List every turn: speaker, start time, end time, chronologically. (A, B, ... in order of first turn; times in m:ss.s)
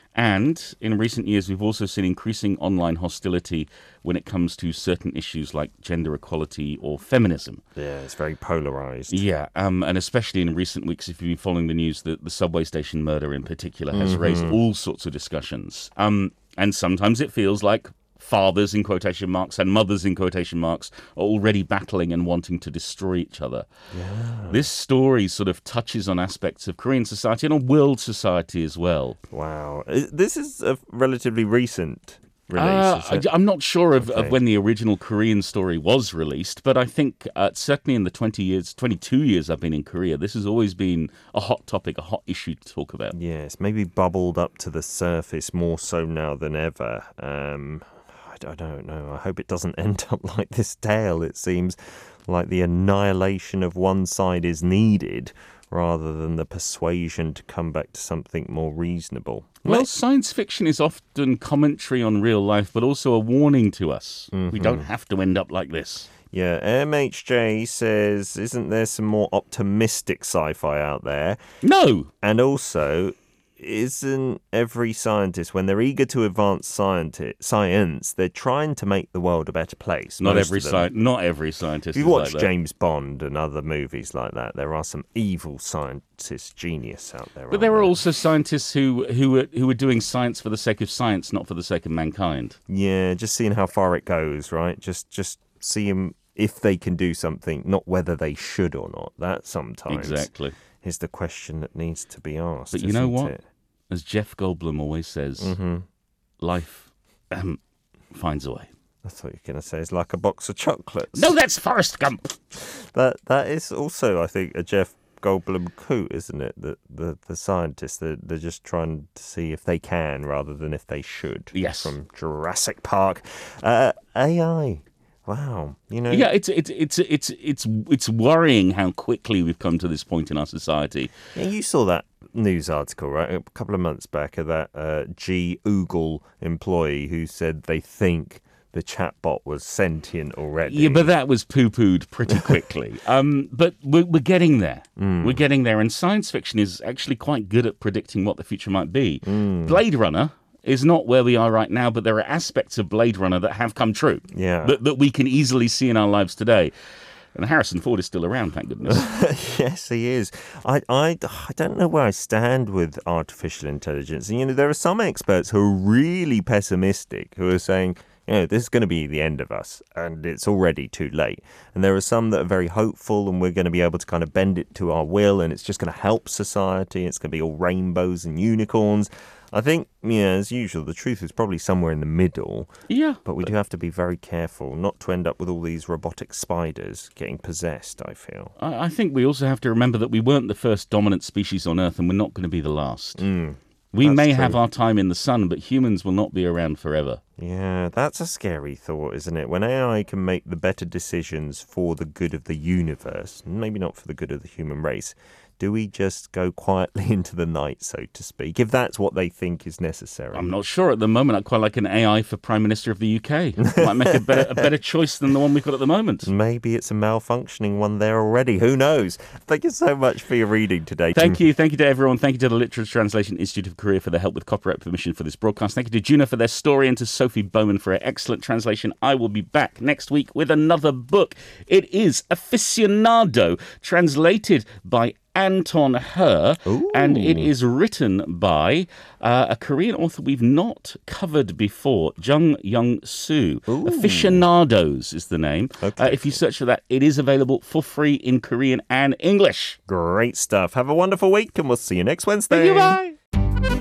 0:00.2-0:07.6 A
0:07.8-0:09.2 B
0:09.1-0:23.7 A
0:13.9-0:14.6 B
0:23.9-0:24.7 B
0:24.5-0:29.2 A
0:29.3-0:33.3 B
0:32.6-0:43.2 A
0:34.0-0:34.4 B
0:43.1-0:59.9 B
0:59.6-1:06.1 A
1:04.3-1:04.9 B
1:06.3-1:11.4 B
1:11.6-1:12.1 A
1:12.2-1:20.9 B
1:20.2-1:22.5 A
1:21.9-1:28.0 B
1:27.5-1:32.6 A
1:32.7-1:43.4 B
1:39.9-1:40.6 A
1:42.7-1:43.3 A
1:43.9-1:45.6 A
1:45.4-1:45.9 B
1:46.4-1:47.6 A
1:48.1-1:48.7 A
1:49.0-1:51.3 B
1:51.2-1:52.4 A
1:52.6-2:06.3 B
2:01.5-2:01.9 A
2:06.1-2:11.1 A
2:11.4-2:21.1 B
2:20.7-2:36.7 A
2:25.0-2:25.4 B
2:29.2-2:29.8 B
2:34.3-2:34.8 B
2:37.4-2:39.1 A
2:38.8-3:02.7 B
3:02.9-3:03.2 A
3:03.2-3:08.5 B
3:08.6-3:13.3 A
3:13.2-3:14.6 B
3:13.9-3:17.2 A
3:17.4-3:30.5 B
3:30.3-3:36.3 A
3:33.6-3:34.7 B
3:36.2-3:41.4 B
3:41.2-4:09.8 A
3:56.6-3:57.5 B
4:03.7-4:04.5 B
4:05.8-4:06.4 B
4:09.9-4:13.0 B
4:12.5-4:13.1 A